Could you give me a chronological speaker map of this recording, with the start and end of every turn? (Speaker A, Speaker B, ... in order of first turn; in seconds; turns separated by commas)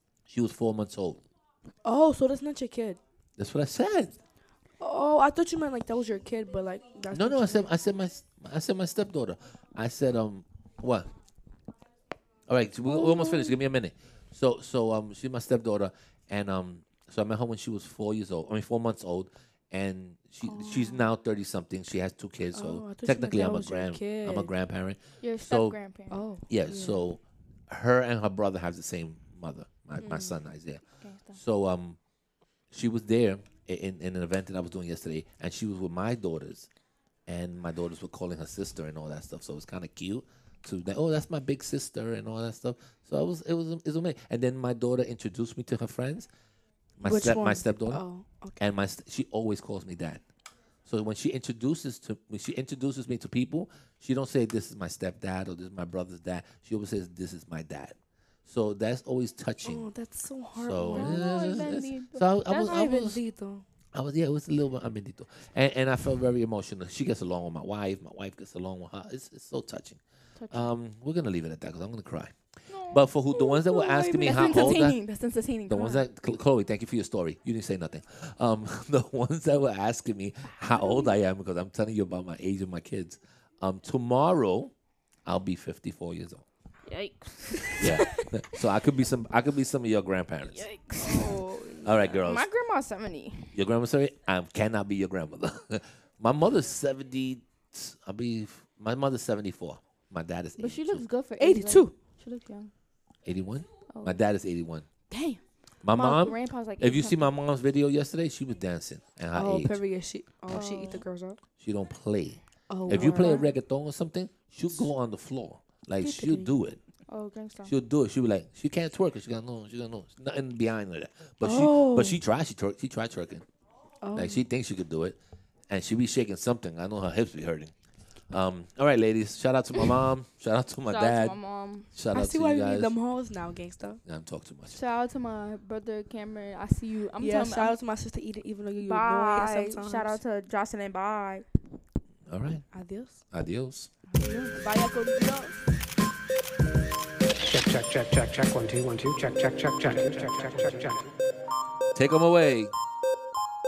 Speaker A: 0.3-1.2, Speaker B: 1.8-3.0, Speaker A: 3.4-4.2, Speaker B: 4.8-7.7, Speaker A: 7.1-11.1, Speaker A: 12.5-25.8, Speaker B: 12.9-13.5, Speaker B: 20.4-21.1, Speaker B: 22.5-24.5, Speaker C: 25.2-26.2, Speaker B: 26.1-27.0, Speaker A: 26.4-32.0, Speaker B: 30.0-30.4, Speaker C: 31.0-31.4, Speaker A: 32.7-36.7, Speaker A: 37.2-46.3, Speaker A: 47.0-48.0, Speaker B: 47.0-48.6, Speaker A: 48.6-50.2, Speaker A: 50.8-59.9, Speaker B: 59.6-61.4, Speaker A: 60.5-63.2, Speaker C: 60.9-62.8, Speaker B: 62.5-63.6, Speaker A: 63.9-75.0, Speaker C: 70.3-70.7, Speaker C: 72.7-76.0, Speaker B: 73.8-74.6, Speaker A: 75.7-84.7, Speaker C: 80.7-81.1, Speaker A: 85.2-86.4, Speaker C: 86.8-88.6, Speaker B: 87.5-87.9, Speaker A: 87.8-90.7, Speaker C: 90.4-93.6, Speaker B: 91.0-91.9, Speaker A: 91.8-92.5, Speaker A: 93.5-101.0, Speaker C: 100.6-102.7, Speaker B: 101.4-101.9, Speaker A: 103.2-104.9, Speaker C: 103.8-104.2, Speaker C: 105.1-107.3, Speaker A: 105.8-109.8, Speaker B: 109.3-111.4, Speaker C: 110.5-111.0, Speaker A: 111.6-116.8, Speaker B: 112.7-113.5, Speaker B: 116.0-116.5, Speaker C: 117.1-117.7, Speaker A: 117.6-123.4, Speaker B: 121.4-122.2, Speaker B: 124.0-124.4, Speaker A: 124.1-125.2, Speaker A: 125.7-127.7, Speaker A: 128.3-131.4, Speaker C: 130.8-131.9, Speaker A: 131.9-132.9, Speaker B: 132.1-134.0, Speaker A: 134.0-134.8, Speaker C: 134.7-137.8, Speaker B: 137.2-140.2, Speaker C: 138.8-141.5, Speaker A: 142.3-142.7, Speaker B: 142.7-143.2, Speaker A: 143.3-143.9, Speaker B: 144.1-144.6, Speaker C: 144.2-145.7, Speaker D: 147.5-151.0, Speaker A: 151.9-152.7